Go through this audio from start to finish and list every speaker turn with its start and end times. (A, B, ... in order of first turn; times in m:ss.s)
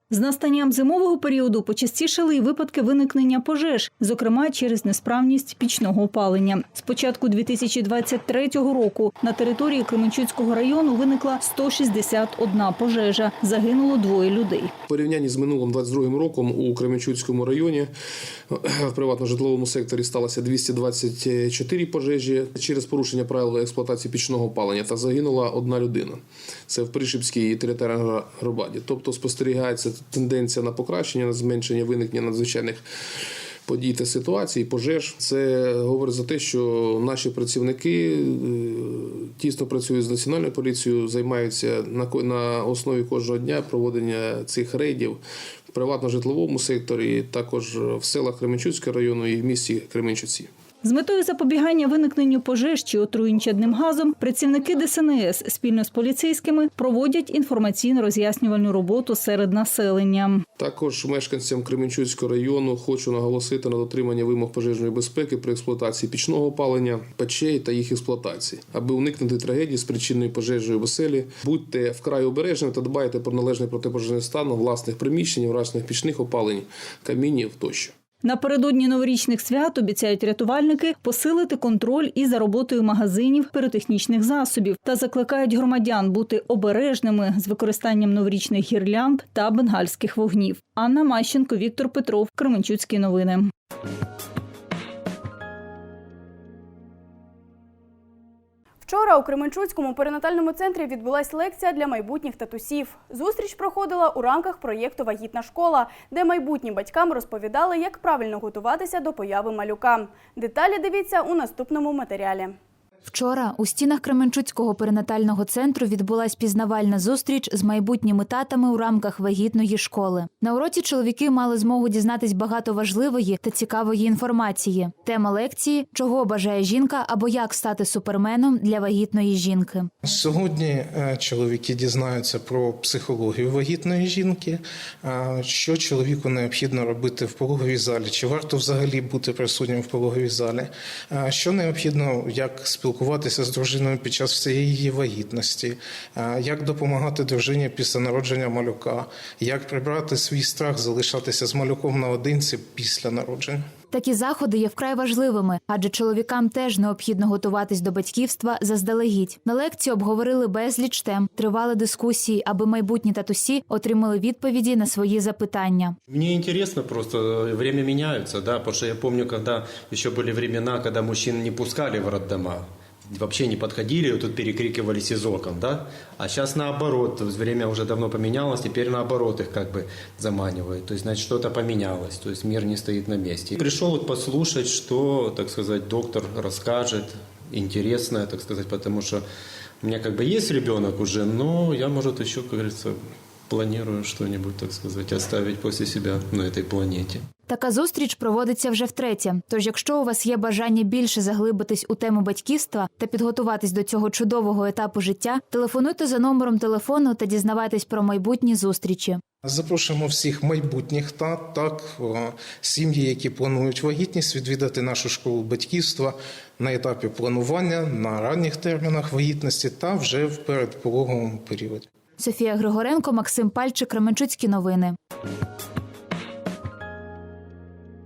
0:00.1-0:14.7 A
0:14.9-0:17.9 B
0:18.5-0:32.8 B
0:33.7-0:45.2 B
0:45.7-0:50.5 B
0:50.8-1:00.4 A
1:00.6-1:17.9 B
1:18.2-1:33.5 A
1:38.8-1:52.5 C
1:53.1-2:09.9 D
2:10.0-2:33.6 E
2:33.9-2:46.0 D
2:46.1-3:09.2 F
3:09.8-3:17.2 F
3:17.5-3:29.2 D
3:29.4-3:41.9 E
3:42.2-3:45.0 D